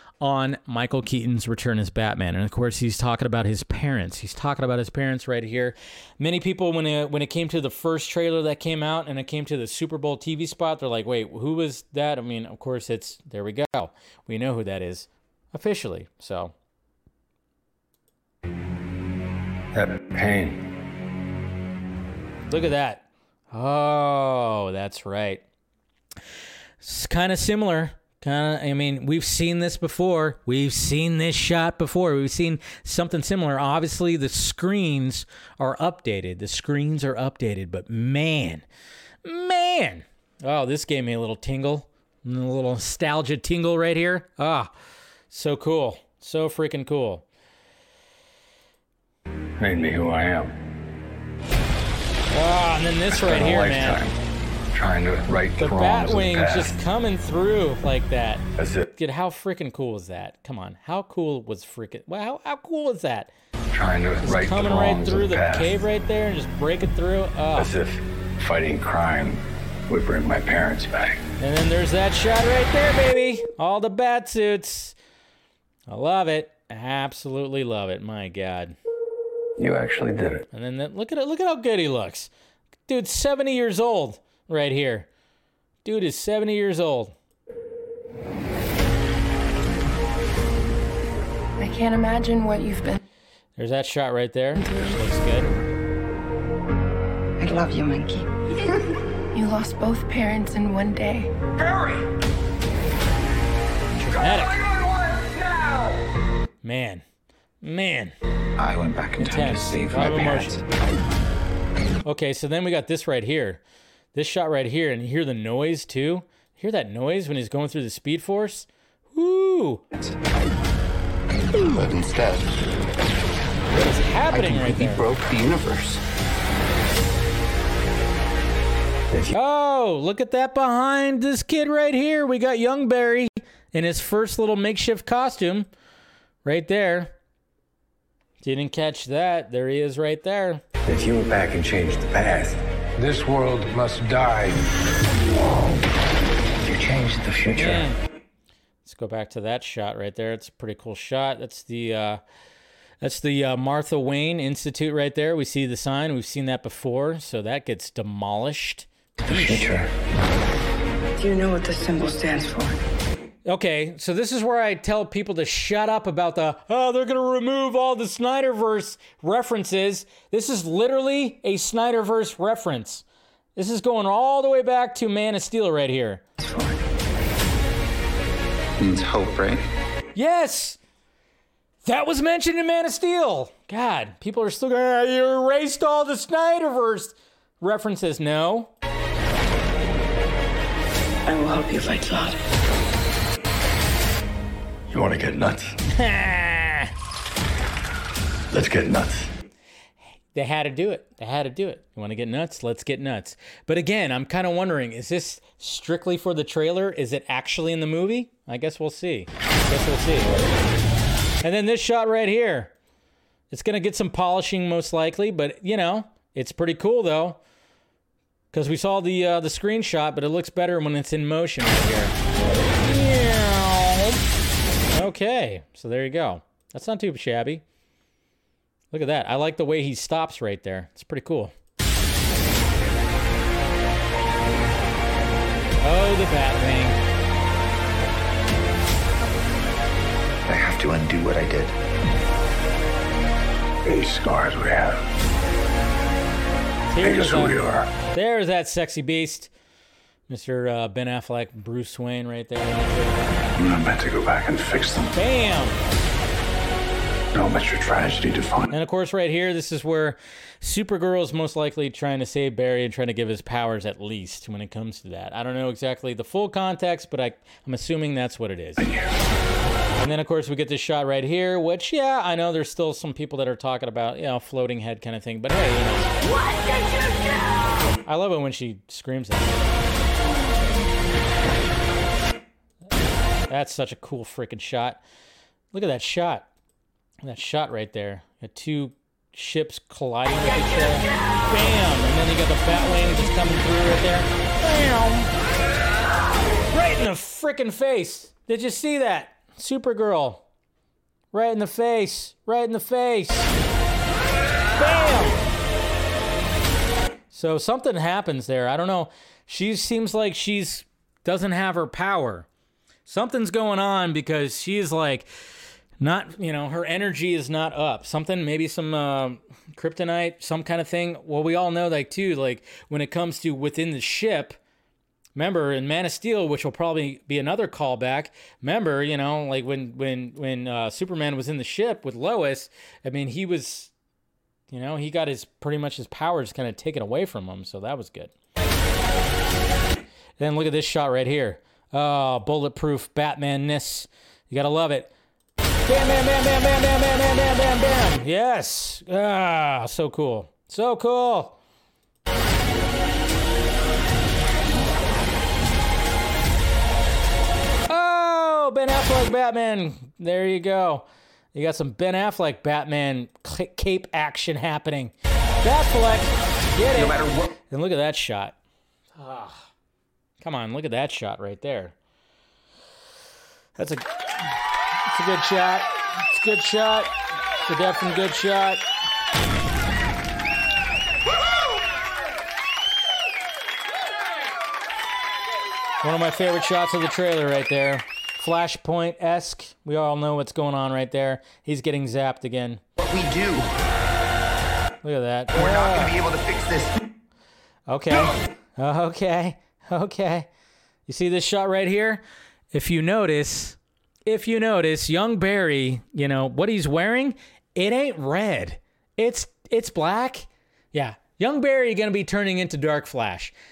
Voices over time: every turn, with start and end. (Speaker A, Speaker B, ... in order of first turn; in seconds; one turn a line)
Speaker A: 0.2-16.5
Speaker B: 19.7-20.7
Speaker A: 22.5-25.4
Speaker A: 26.8-38.6
Speaker A: 39.2-44.7
Speaker A: 45.3-47.3
Speaker B: 49.6-50.5
Speaker A: 52.3-54.0
Speaker B: 53.2-54.1
Speaker B: 54.7-56.8
Speaker A: 55.6-58.4
Speaker B: 58.6-58.9
Speaker A: 59.0-63.3
Speaker B: 63.7-65.8
Speaker A: 64.2-67.7
Speaker B: 67.5-71.2
Speaker A: 71.4-75.0
Speaker A: 75.9-78.8
Speaker B: 79.6-80.5
Speaker A: 80.5-82.3
Speaker A: 82.9-85.1
Speaker A: 85.8-87.2
Speaker C: 91.6-93.0
Speaker A: 93.6-95.6
Speaker D: 97.4-98.3
Speaker C: 99.3-101.3
Speaker A: 104.0-104.7
Speaker A: 106.6-107.0
Speaker A: 107.6-108.1
Speaker E: 108.6-110.6
Speaker A: 109.2-110.6
Speaker A: 112.0-113.6
Speaker A: 114.1-119.8
Speaker E: 121.5-122.8
Speaker A: 123.7-125.1
Speaker E: 124.3-126.0
Speaker A: 129.3-135.7
Speaker A: 136.4-137.1
Speaker A: 138.4-140.6
Speaker B: 140.8-144.7
Speaker B: 146.7-147.9
Speaker A: 147.5-148.0
Speaker A: 148.8-152.2
Speaker A: 153.0-159.8
Speaker E: 159.3-159.9
Speaker B: 159.3-159.8
Speaker D: 161.2-162.8
Speaker A: 163.5-176.2
Speaker D: 176.4-176.8
Speaker E: 178.8-179.7
Speaker A: 180.2-180.8
Speaker A: 181.8-188.7
Speaker D: 191.3-192.4
Speaker B: 194.9-195.8
Speaker A: 195.9-196.9
Speaker B: 198.5-199.3
Speaker A: 200.3-210.4
Speaker A: 211.4-212.7
Speaker A: 213.5-217.4
Speaker A: 218.5-224.2
Speaker A: 224.9-227.6
Speaker A: 228.9-231.5
Speaker A: 235.8-237.0
Speaker E: 240.5-241.8
Speaker B: 243.8-245.0
Speaker A: 246.9-249.5
Speaker B: 247.0-247.9
Speaker A: 250.3-253.6
Speaker B: 253.6-255.2
Speaker A: 255.1-255.8
Speaker B: 257.3-258.7
Speaker A: 258.7-268.9
Speaker B: 268.8-269.1
Speaker A: 270.0-276.2
Speaker A: 278.1-279.6
Speaker A: 283.5-285.0
Speaker A: 285.7-286.5
Speaker A: 287.2-295.3
Speaker A: 296.7-300.4
Speaker A: 301.3-303.5
Speaker A: 304.7-305.4
Speaker A: 307.3-312.5
Speaker A: 313.1-315.3
Speaker A: 316.0-324.6
Speaker A: 325.4-333.9
Speaker A: 334.7-338.3
Speaker A: 340.4-345.1
Speaker A: 345.9-351.6
Speaker A: 357.9-368.6
Speaker E: 366.9-367.6
Speaker A: 369.2-369.6
Speaker A: 370.4-371.9
Speaker A: 373.8-374.5
Speaker A: 375.1-377.1
Speaker A: 377.7-378.8
Speaker A: 386.0-392.8
Speaker E: 393.0-393.7
Speaker A: 395.0-396.2
Speaker E: 395.5-397.0
Speaker A: 397.9-400.5
Speaker A: 401.1-413.5